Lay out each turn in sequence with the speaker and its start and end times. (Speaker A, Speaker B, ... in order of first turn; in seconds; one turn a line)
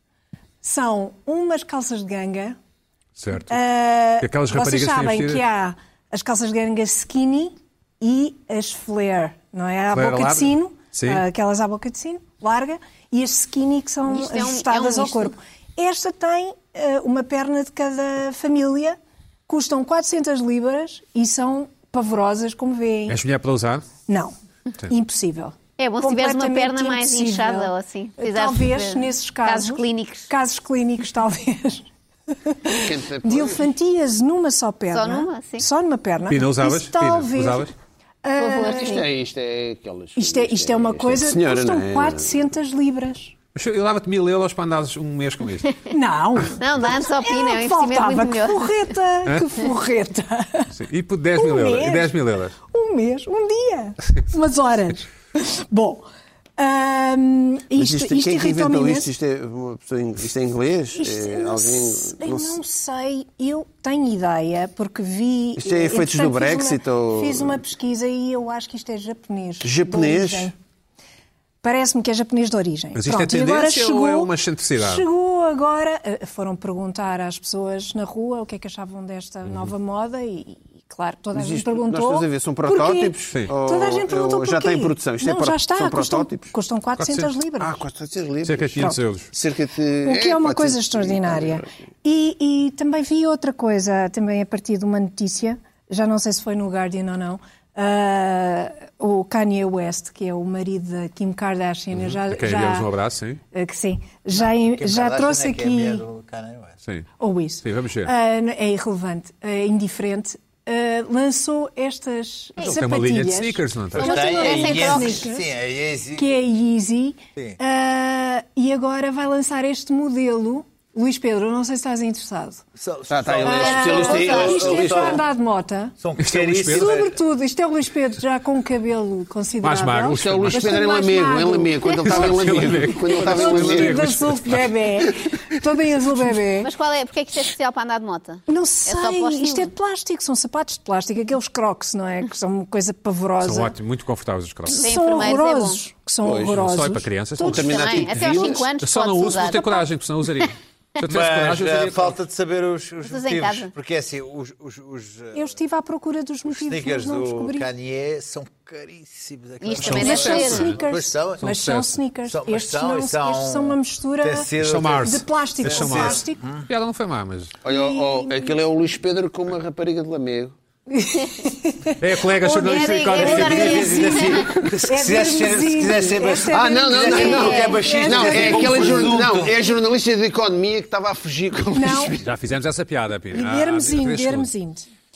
Speaker A: 0.6-2.6
Speaker B: 3.2-3.5
Speaker A: 3.5-23.2
Speaker B: 4.2-5.4
Speaker B: 9.9-11.2
Speaker C: 14.1-15.3
Speaker B: 23.1-23.8
Speaker A: 24.1-37.7
Speaker C: 25.8-30.3
Speaker D: 32.7-33.7
Speaker C: 34.9-35.6
Speaker B: 36.3-37.7
Speaker A: 38.2-39.0
Speaker C: 38.4-39.0
Speaker D: 38.6-42.4
Speaker A: 40.1-43.3
Speaker B: 43.5-45.8
Speaker A: 45.9-50.7
Speaker C: 46.6-48.9
Speaker B: 50.7-52.5
Speaker A: 51.4-59.1
Speaker D: 57.7-62.6
Speaker A: 61.0-70.5
Speaker D: 65.5-67.6
Speaker D: 69.6-70.5
Speaker A: 71.6-87.8
Speaker B: 72.9-75.0
Speaker D: 81.3-86.5
Speaker B: 87.0-87.3
Speaker D: 87.6-91.7
Speaker B: 88.4-89.3
Speaker A: 90.0-102.9
Speaker B: 101.9-103.4
Speaker A: 103.5-106.0
Speaker E: 104.3-106.8
Speaker A: 107.2-115.5
Speaker B: 107.6-108.1
Speaker B: 112.6-114.2
Speaker E: 113.9-116.3
Speaker C: 114.0-115.2
Speaker A: 116.1-122.6
Speaker E: 122.8-125.2
Speaker D: 123.1-125.2
Speaker A: 123.4-125.9
Speaker C: 123.5-124.7
Speaker E: 126.0-127.2
Speaker B: 126.2-126.9
Speaker A: 126.7-132.3
Speaker B: 129.6-130.8
Speaker D: 130.2-134.0
Speaker B: 132.0-134.6
Speaker A: 133.2-136.7
Speaker C: 136.6-139.7
Speaker A: 138.5-143.8
Speaker B: 143.4-144.8
Speaker A: 144.6-148.1
Speaker C: 144.7-145.8
Speaker D: 146.2-146.7
Speaker B: 146.4-152.2
Speaker D: 147.4-148.7
Speaker C: 147.6-149.8
Speaker E: 151.0-155.5
Speaker C: 153.0-153.7
Speaker A: 155.3-157.7
Speaker E: 156.5-161.4
Speaker C: 159.6-160.7
Speaker B: 159.7-160.8
Speaker A: 159.8-166.4
Speaker B: 161.4-162.0
Speaker E: 162.2-166.7
Speaker B: 164.6-167.6
Speaker D: 167.6-170.5
Speaker A: 167.7-168.5
Speaker A: 170.9-179.1
Speaker B: 172.0-174.0
Speaker C: 172.5-174.4
Speaker E: 173.2-179.6
Speaker D: 176.4-182.3
Speaker C: 177.2-177.8
Speaker A: 181.7-182.1
Speaker B: 182.2-184.5
Speaker A: 183.3-184.9